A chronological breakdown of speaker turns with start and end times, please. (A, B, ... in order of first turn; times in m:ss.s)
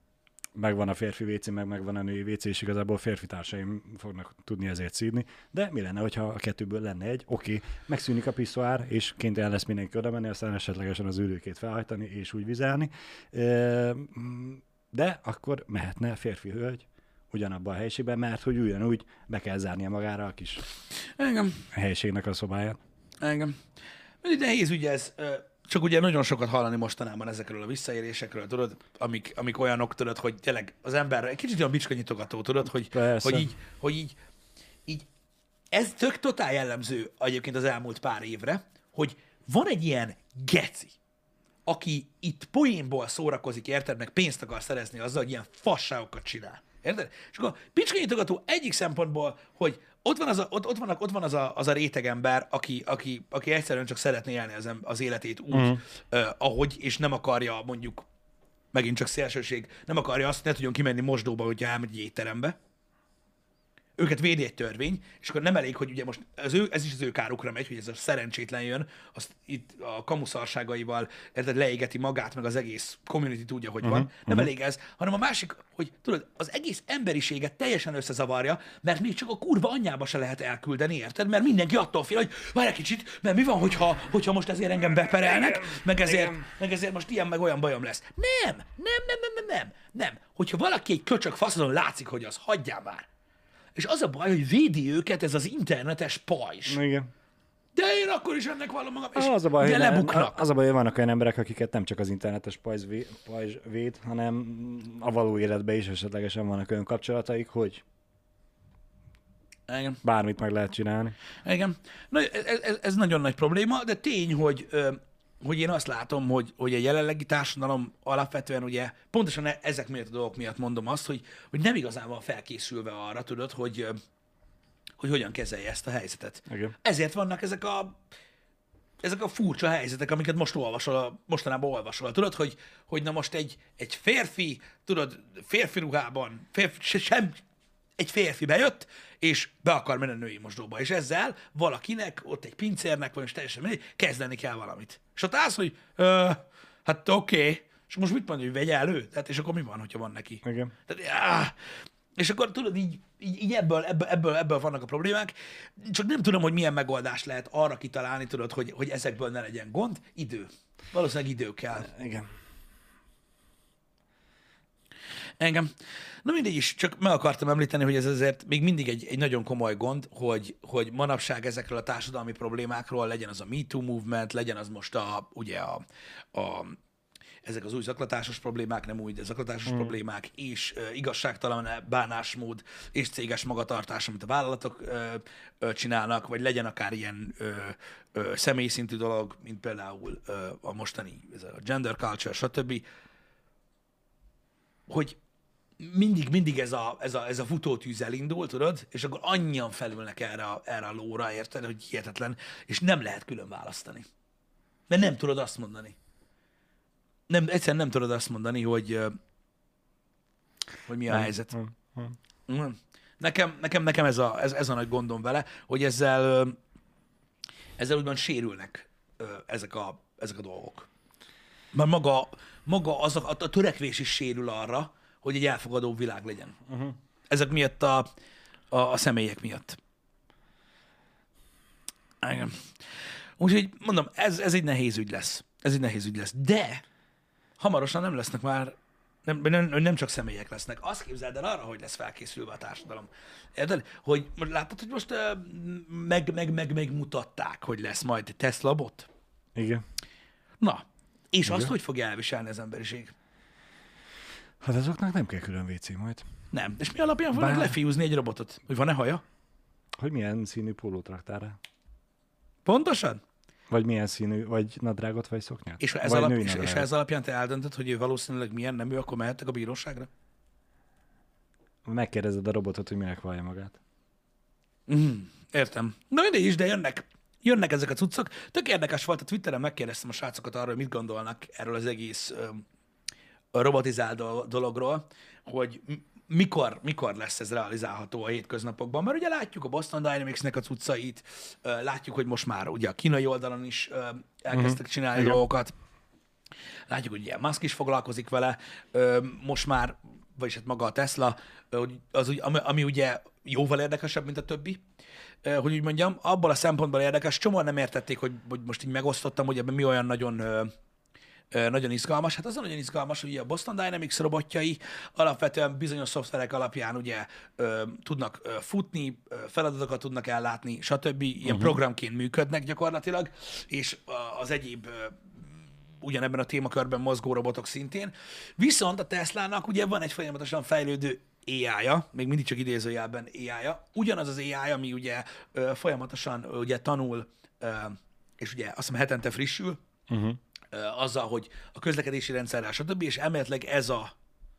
0:00.5-0:20.6 A
0:21.2-0:21.6 B
0:21.7-0:22.8 A
0:23.2-0:23.6 B
0:24.2-0:34.1 B
0:32.9-0:33.5 A
0:35.7-0:41.0 B
0:41.6-0:58.0 B
0:55.5-0:55.8 A
0:58.7-1:02.5 B
1:04.0-1:33.1 B
1:13.8-1:14.5 A
1:25.2-1:26.4 A
1:33.8-1:36.8 B
1:36.7-1:37.1 A
1:37.7-1:40.4 B
1:39.1-1:47.8 A
1:49.7-1:50.0 B
1:50.0-1:51.2 A
1:51.4-2:04.0 B
2:05.0-2:08.0 B
2:06.5-2:06.7 A
2:09.0-2:17.4 B
2:18.0-2:31.6 B
2:30.4-2:30.7 A
2:32.2-2:41.9 B
2:41.8-2:42.3 A
2:45.4-2:45.7 B
2:46.2-2:55.8 B
2:56.3-2:56.8 B
2:57.4-3:12.8 B
2:59.7-2:59.9 A
3:14.9-3:15.2 B
3:15.8-3:24.1 B
3:24.9-3:26.0 B
3:27.3-3:29.2 B
3:30.8-3:31.5 B
3:31.1-3:32.2 A
3:32.5-3:36.6 B
3:37.8-3:40.9 B
3:41.7-3:46.6 B
3:46.7-3:47.0 A
3:47.3-3:48.1 B
3:48.7-3:49.8 B
3:52.2-3:52.7 B
3:53.4-3:56.8 B
3:57.6-4:09.1 B
4:09.5-4:09.8 A
4:10.6-4:13.1 B
4:11.4-4:11.7 A
4:14.6-4:16.3 A
4:16.5-4:19.2 B
4:17.3-4:17.8 A
4:20.0-4:21.6 A
4:22.6-4:23.2 B
4:23.7-4:26.9 A
4:25.8-4:30.1 B
4:31.8-4:33.8 A
4:34.9-4:42.6 B
4:43.5-4:55.7 B
4:54.5-4:55.4 A
4:56.9-5:04.8 B
5:05.4-5:10.7 B
5:11.5-5:25.3 B
5:21.5-5:21.8 A
5:26.0-5:39.8 B
5:40.1-5:40.4 A
5:40.7-5:44.1 B